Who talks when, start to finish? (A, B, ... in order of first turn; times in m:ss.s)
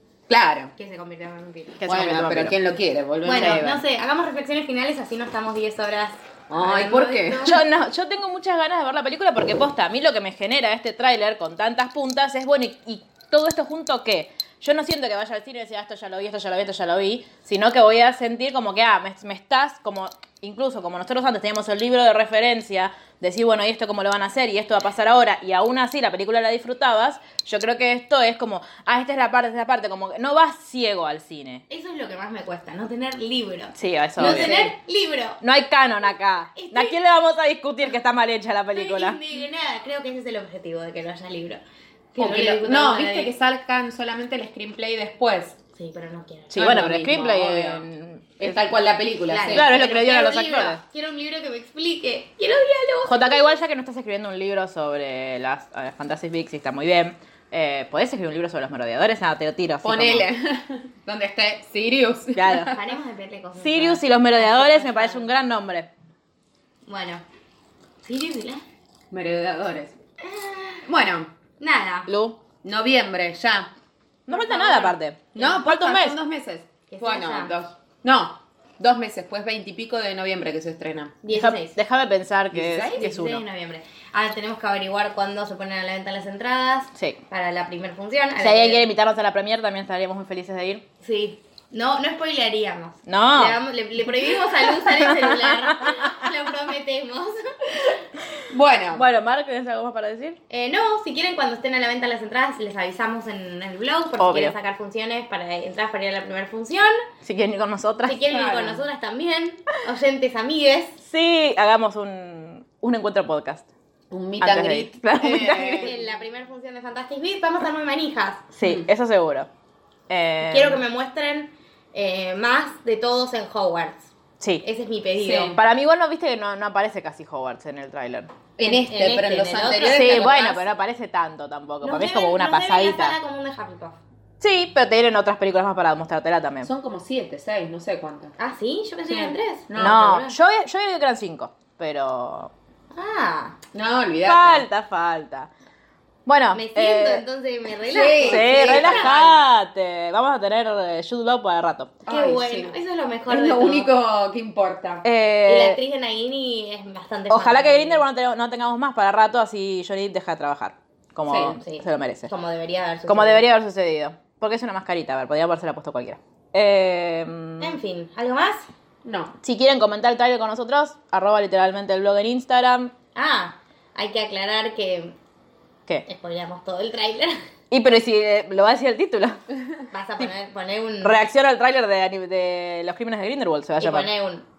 0:00.3-0:00.7 A
0:00.8-0:01.8 B
0:01.8-0:02.6 C
0:01.9-0:03.8 A
0:03.2-0:07.6 B
0:03.4-0:03.7 C
0:06.5-0:07.5 A
0:07.4-0:31.6 C
0:31.7-0:35.4 B
0:33.8-0:34.7 C
0:34.2-0:34.6 A
0:35.4-0:39.2 C
0:36.5-0:37.0 B
0:38.7-0:41.6 B
0:42.2-0:43.3 B
0:42.2-0:45.6 A
0:45.8-0:46.8 B
0:46.5-0:48.6 C
0:46.6-0:47.8 A
0:48.4-0:49.7 A
0:49.3-0:53.6 B
0:49.5-0:50.8 C
0:53.0-1:00.3 C
0:59.8-1:02.8 A
1:02.4-1:02.8 C
1:02.7-1:05.2 B
1:03.6-1:05.9 C
1:06.9-1:07.2 B
1:08.0-1:08.6 B
1:09.1-1:10.0 A
1:10.2-1:10.8 B
1:10.8-1:11.3 A
1:11.6-1:12.1 B
1:12.1-1:12.4 C
1:12.6-1:13.7 A
1:14.3-1:16.2 C
1:14.3-1:21.2 A
1:16.9-1:17.6 B
1:21.2-1:21.8 B
1:21.3-1:23.4 C
1:22.5-1:23.1 A
1:23.0-1:28.9 B
1:27.0-1:27.2 C
1:28.4-1:30.8 C
1:31.0-1:37.9 B
1:33.1-1:33.6 C
1:34.8-1:35.6 C
1:38.5-1:39.0 A
1:38.9-1:40.4 C
1:40.5-1:47.0 B
1:44.2-1:44.6 C
1:47.2-1:48.4 C
1:48.0-1:51.0 B
1:48.3-1:48.8 A
1:51.0-1:53.7 C
1:54.1-1:55.9 A
1:54.4-1:55.9 C
1:55.8-1:58.5 B
1:58.6-1:59.5 C
1:58.6-1:58.9 A
2:00.1-2:00.8 C
2:00.4-2:05.6 B
2:04.4-2:04.6 C
2:05.2-2:05.6 A
2:05.5-2:08.3 C
2:08.6-2:10.5 A
2:08.6-2:10.6 B
2:09.8-2:13.2 C
2:11.8-2:14.0 B
2:14.4-2:16.7 C
2:16.6-2:18.4 A
2:18.4-2:20.4 B
2:19.1-2:20.0 A
2:19.8-2:22.5 C
2:22.9-2:23.6 B
2:23.7-2:24.7 A
2:24.2-2:25.5 C
2:26.2-2:27.2 C
2:26.5-2:29.4 B
2:27.8-2:29.3 A
2:28.2-2:32.0 C
2:32.1-2:32.8 A
2:32.1-2:33.9 B
2:33.3-2:35.0 A
2:35.0-2:35.8 C
2:35.4-2:38.1 B
2:37.3-2:42.3 C
2:41.2-2:41.6 A
2:41.6-2:43.5 B
2:43.1-2:47.8 C
2:47.6-2:48.7 B
2:49.0-2:49.3 A
2:49.4-2:52.9 C
2:53.2-2:55.2 B
2:56.0-2:57.4 B
2:57.7-2:59.4 C
2:59.9-3:01.2 B
3:01.0-3:04.1 C
3:03.8-3:04.5 B